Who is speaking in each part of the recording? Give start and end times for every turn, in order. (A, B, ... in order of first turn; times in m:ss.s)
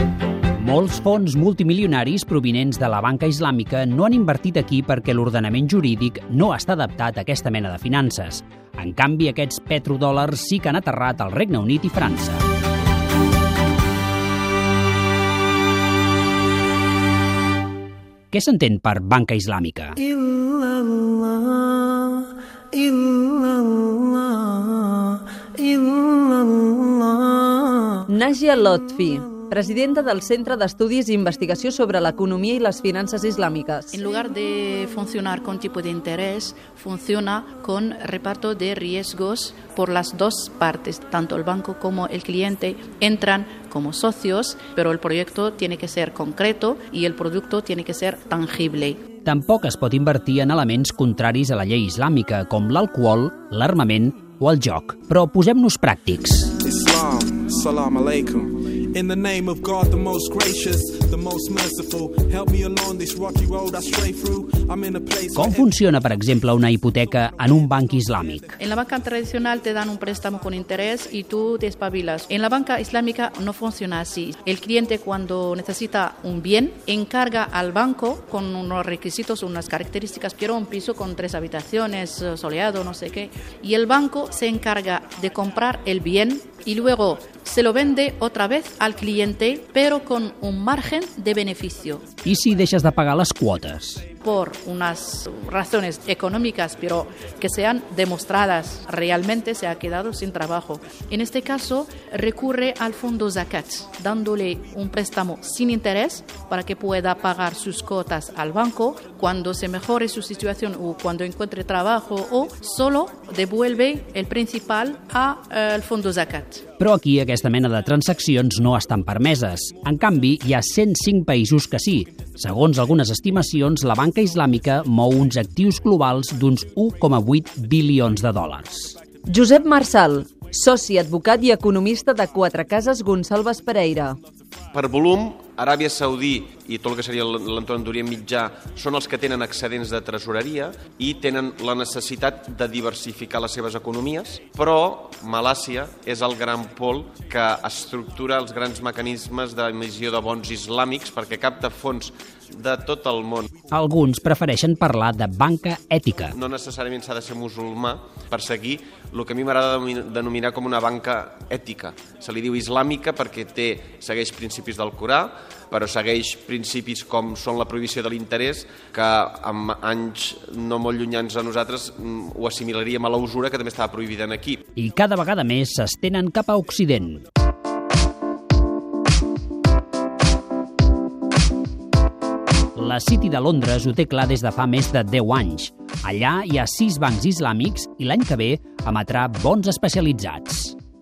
0:00.6-0:12.4 A
0:18.3-0:20.0 A
0:20.1-0:21.5 B
0:22.7-0:24.6 B
0:25.6-0:33.9 B
0:33.9-0:49.0 C
0:49.2-0:56.5 A
0:56.6-1:05.7 D
1:05.3-1:08.6 A
1:08.6-1:32.0 C
1:32.2-1:34.0 A
1:34.2-1:56.6 C
1:56.8-2:09.0 A
2:09.2-2:14.2 B
2:14.7-2:33.5 E
2:33.7-2:36.3 A
2:36.3-2:54.6 E
2:54.8-2:57.2 A
3:02.8-3:10.7 A